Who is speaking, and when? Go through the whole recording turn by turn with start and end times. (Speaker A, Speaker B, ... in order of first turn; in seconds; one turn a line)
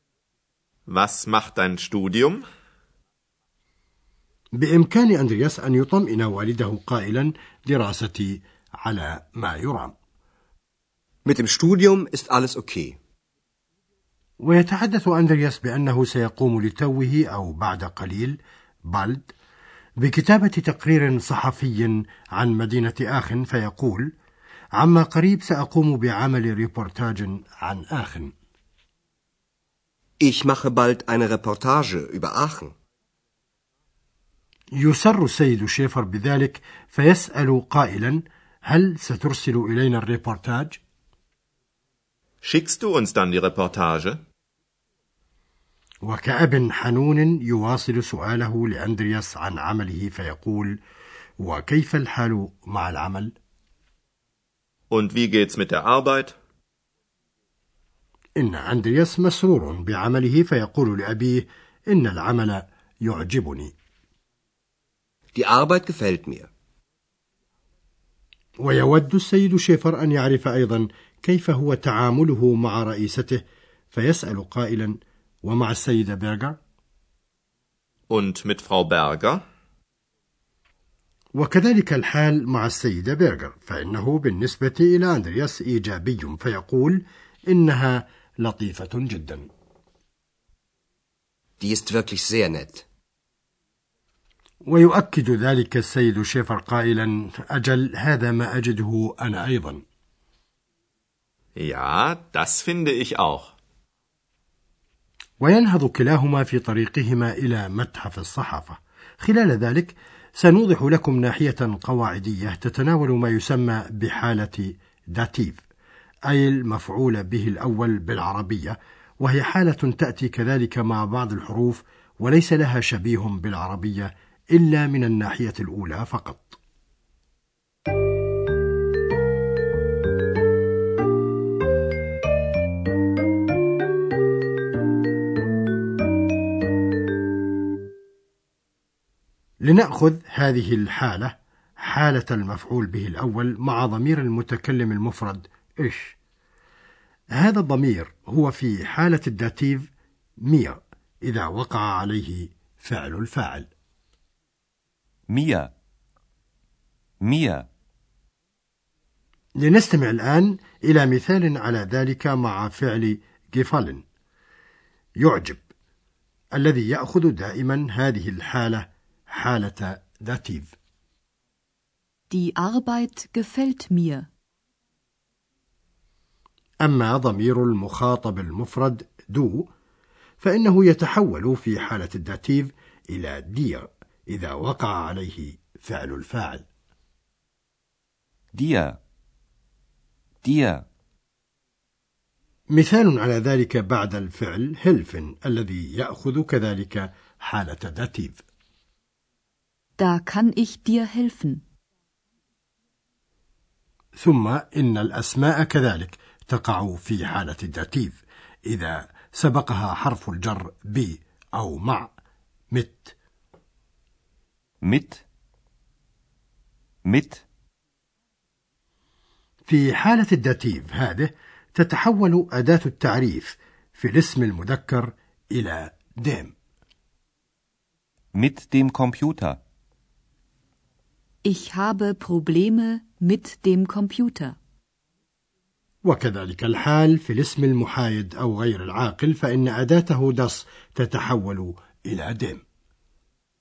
Speaker A: 0.9-2.4
Speaker B: 4.5-9.9
Speaker C: 11.2-13.0
Speaker B: 14.4-18.4
Speaker B: 18.9-19.3
Speaker B: 20.0-24.1
Speaker B: 24.8-28.3
Speaker C: 30.2-32.7
Speaker B: 34.8-40.8
Speaker A: 42.4-44.2
Speaker B: 46.0-50.8
Speaker B: 51.4-53.3
Speaker A: 54.9-56.4
Speaker B: 58.4-63.7
Speaker C: 65.3-66.5
Speaker B: 68.6-76.5
Speaker A: 78.1-79.4
Speaker B: 81.3-89.5
Speaker C: 91.6-92.8
Speaker B: 94.6-99.8
Speaker A: 101.5-103.5
Speaker B: 105.4-115.6
Speaker B: 116.3-126.6
Speaker B: 139.6-146.2
Speaker B: 147.3-149.9
Speaker B: 150.4-153.7
Speaker D: 155.3-155.7
Speaker D: 157.2-157.7
Speaker B: 159.6-164.0
Speaker B: 165.2-165.6
Speaker B: 166.5-170.7
Speaker E: 172.3-174.3
Speaker B: 176.8-179.7
Speaker B: 180.4-186.7
Speaker D: 188.5-189.0
Speaker D: 190.4-190.9
Speaker B: 192.7-198.4
Speaker E: 200.0-201.6
Speaker B: 204.2-212.1
Speaker B: 212.7-213.1
Speaker D: 214.8-215.2
Speaker D: 217.0-217.4
Speaker B: 219.7-226.5
Speaker D: 228.3-229.6
Speaker E: 231.4-234.6
Speaker B: 236.0-242.6